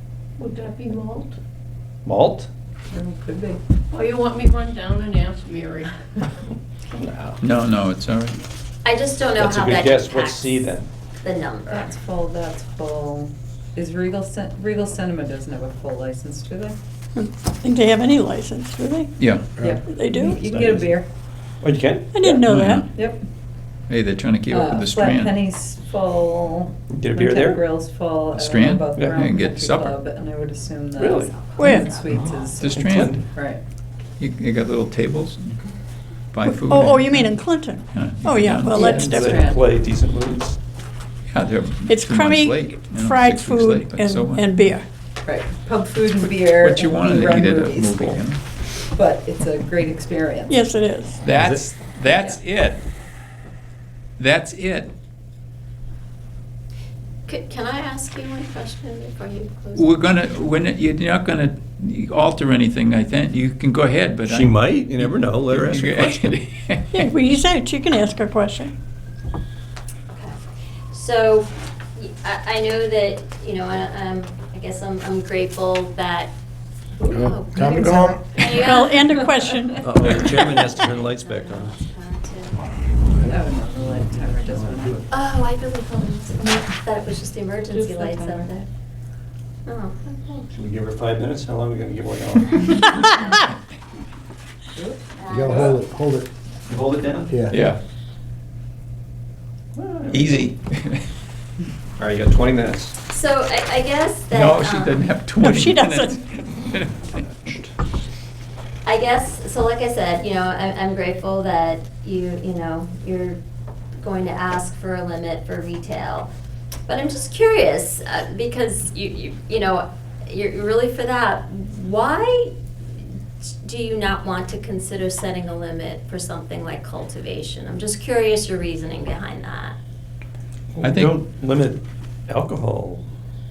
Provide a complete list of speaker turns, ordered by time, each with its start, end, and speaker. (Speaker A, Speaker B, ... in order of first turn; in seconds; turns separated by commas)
Speaker A: 0.4-1.4, Speaker B: 2.0-2.5, Speaker C: 2.9-3.6, Speaker A: 3.9-5.9, Speaker B: 7.0-7.4, Speaker D: 7.4-8.4, Speaker E: 8.8-11.9, Speaker B: 9.4-10.9, Speaker C: 11.7-16.8, Speaker F: 17.2-19.1, Speaker D: 19.2-19.6, Speaker C: 19.6-21.1, Speaker F: 19.8-20.4, Speaker B: 20.4-20.9, Speaker B: 21.6-22.1, Speaker F: 22.1-22.8, Speaker D: 22.4-22.9, Speaker C: 22.9-23.2, Speaker D: 23.9-25.4, Speaker C: 24.5-33.6, Speaker B: 26.9-27.6, Speaker D: 28.3-30.0, Speaker B: 31.0-31.3, Speaker E: 31.3-32.1, Speaker F: 31.6-31.9, Speaker D: 32.0-33.2, Speaker B: 32.1-33.2, Speaker D: 34.2-35.6, Speaker D: 36.3-37.2, Speaker F: 36.5-39.4, Speaker D: 37.9-38.9, Speaker B: 38.8-40.6, Speaker C: 38.9-39.6, Speaker D: 41.3-44.5, Speaker F: 41.9-44.9, Speaker C: 45.2-48.2, Speaker D: 46.5-48.4, Speaker C: 48.9-50.5, Speaker F: 50.5-51.2, Speaker D: 51.2-52.8, Speaker C: 52.1-52.4, Speaker D: 54.2-54.9, Speaker E: 57.3-60.0, Speaker D: 59.8-67.1, Speaker B: 64.3-66.4, Speaker F: 66.9-68.7, Speaker E: 70.1-70.4, Speaker E: 70.9-76.3, Speaker E: 77.0-79.0, Speaker G: 77.1-78.2, Speaker F: 78.5-79.9, Speaker B: 79.8-81.8, Speaker E: 80.1-82.6, Speaker C: 83.3-85.0, Speaker B: 83.9-85.0, Speaker E: 85.1-88.7, Speaker C: 87.7-88.5, Speaker E: 89.7-90.5, Speaker B: 90.5-92.9, Speaker E: 93.0-93.4, Speaker E: 95.2-95.7, Speaker G: 95.3-96.3, Speaker B: 95.5-95.8, Speaker B: 96.7-97.3, Speaker G: 97.3-97.6, Speaker D: 97.5-97.8, Speaker B: 99.7-100.5, Speaker D: 100.1-101.0, Speaker B: 102.0-103.0, Speaker E: 103.1-105.1, Speaker D: 104.3-107.2, Speaker F: 105.4-106.2, Speaker E: 108.8-113.4, Speaker E: 114.0-116.3, Speaker E: 116.9-122.6, Speaker E: 123.4-129.8, Speaker B: 130.8-133.1, Speaker D: 130.8-131.2